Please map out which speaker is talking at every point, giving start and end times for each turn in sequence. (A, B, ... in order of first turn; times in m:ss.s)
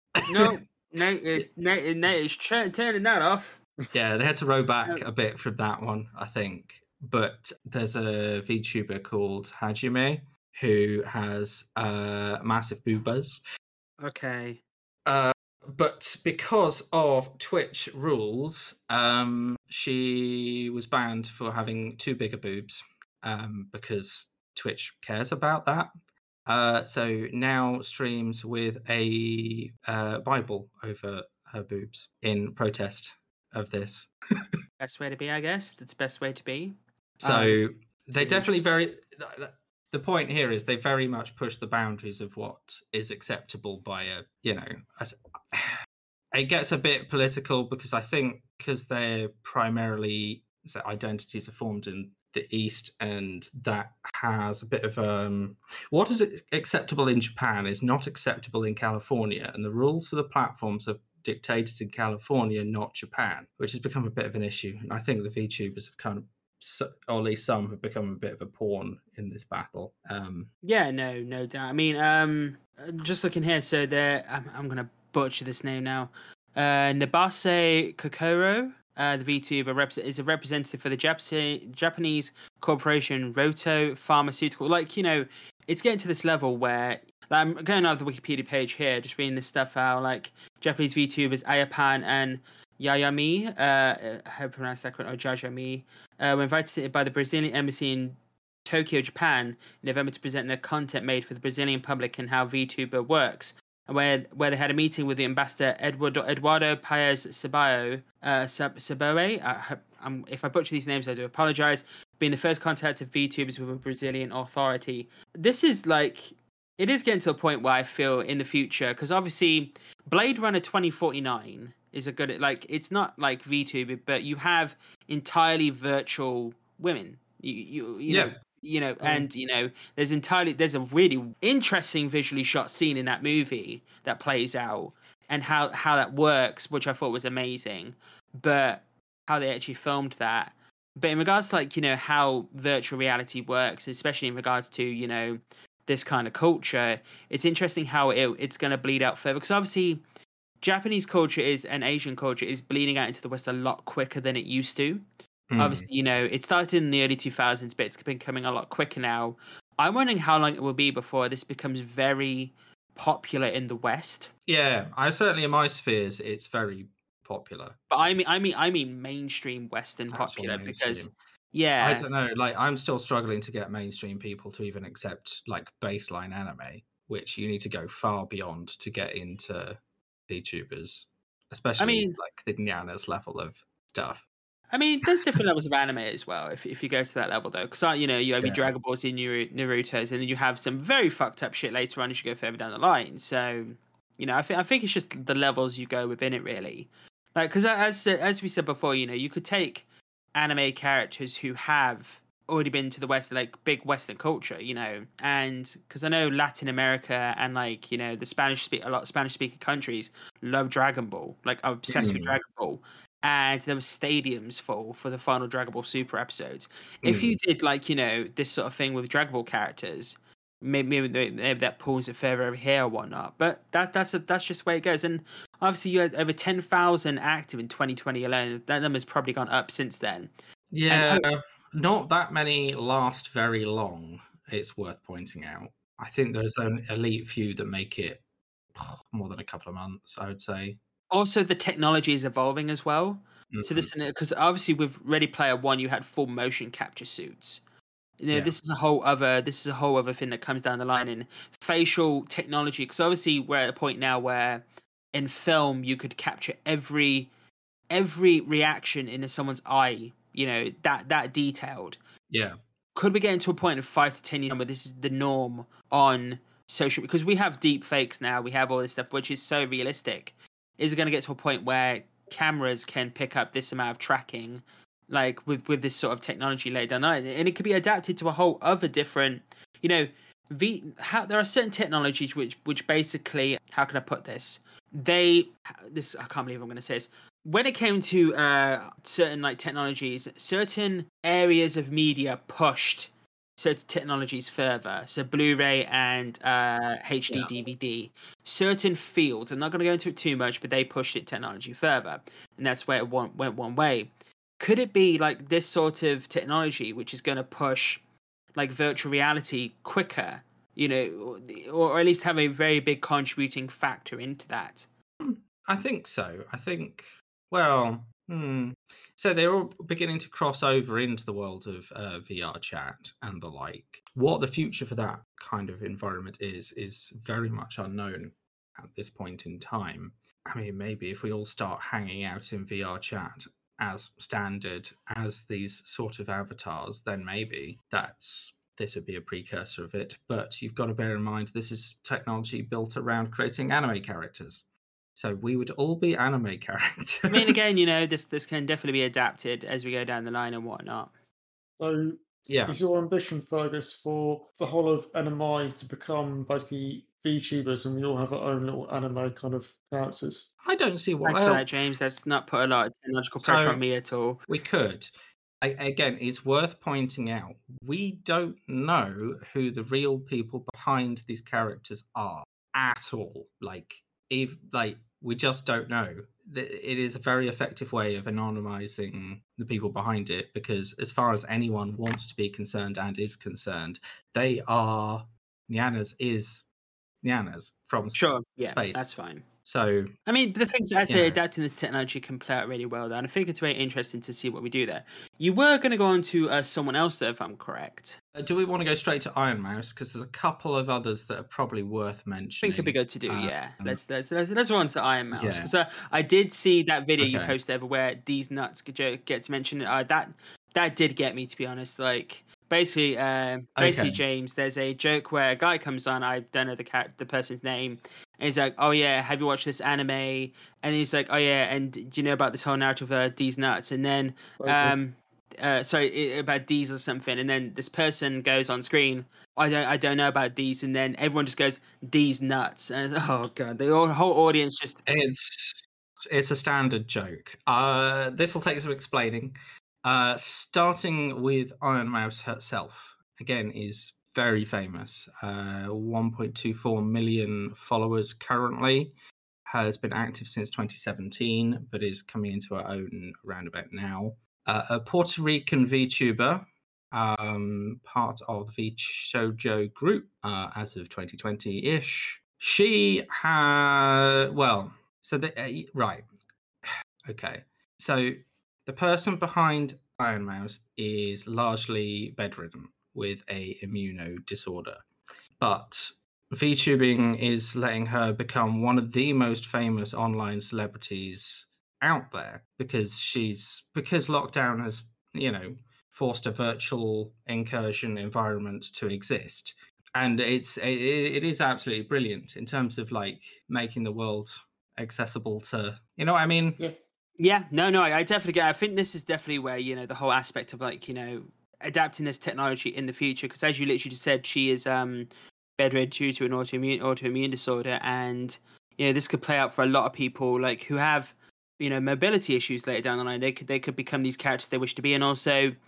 0:00.2-0:00.5 A
0:00.2-0:03.6 B
0:03.9-0:13.4 A
0:14.0-0:14.6 B
0:15.0-0:25.9 A
0:26.4-0:34.1 A
0:34.8-0:37.6 B
0:37.2-0:45.7 A
0:38.1-0:38.5 B
0:46.3-1:10.5 A
1:10.6-2:30.0 B
2:09.0-2:09.3 A
2:30.6-2:35.0 B
2:35.5-2:35.9 A
2:35.6-2:44.3 B
2:44.5-2:47.8 A
2:47.9-2:52.0 B
2:50.1-2:51.1 A
2:51.8-3:04.2 A
3:01.8-3:02.2 B
3:04.7-3:19.8 B
3:08.4-3:08.7 A
3:20.3-3:50.3 B
3:31.9-3:32.4 A
3:37.0-3:37.4 A
3:50.7-3:58.2 A
3:50.9-3:51.3 B
3:58.7-4:00.8 A
4:01.1-4:07.6 B
4:03.5-4:03.9 A
4:08.2-4:14.6 B
4:15.1-4:17.3 B
4:17.9-4:22.0 B
4:22.3-4:22.6 A
4:22.9-5:08.0 B
5:08.5-5:14.9 B
5:15.2-5:44.6 A
5:45.2-5:47.8 A
5:47.3-5:51.1 B
5:51.8-6:00.5 C
5:52.5-5:52.8 A
6:00.6-6:01.6 A
6:01.2-6:04.4 B
6:03.4-6:03.8 A
6:04.5-6:26.6 A
6:27.2-6:29.1 A
6:28.2-6:29.4 B
6:29.6-6:30.1 A
6:30.2-6:38.2 B
6:31.1-6:31.4 A
6:38.3-6:44.0 A
6:42.6-7:15.0 B
6:45.3-6:45.7 A
6:47.2-6:47.6 A
6:53.8-6:54.2 A
7:04.6-7:05.0 C
7:15.0-7:29.1 A
7:29.7-7:46.2 A
7:46.8-7:55.0 A
7:55.6-8:16.8 A
8:17.4-8:35.7 B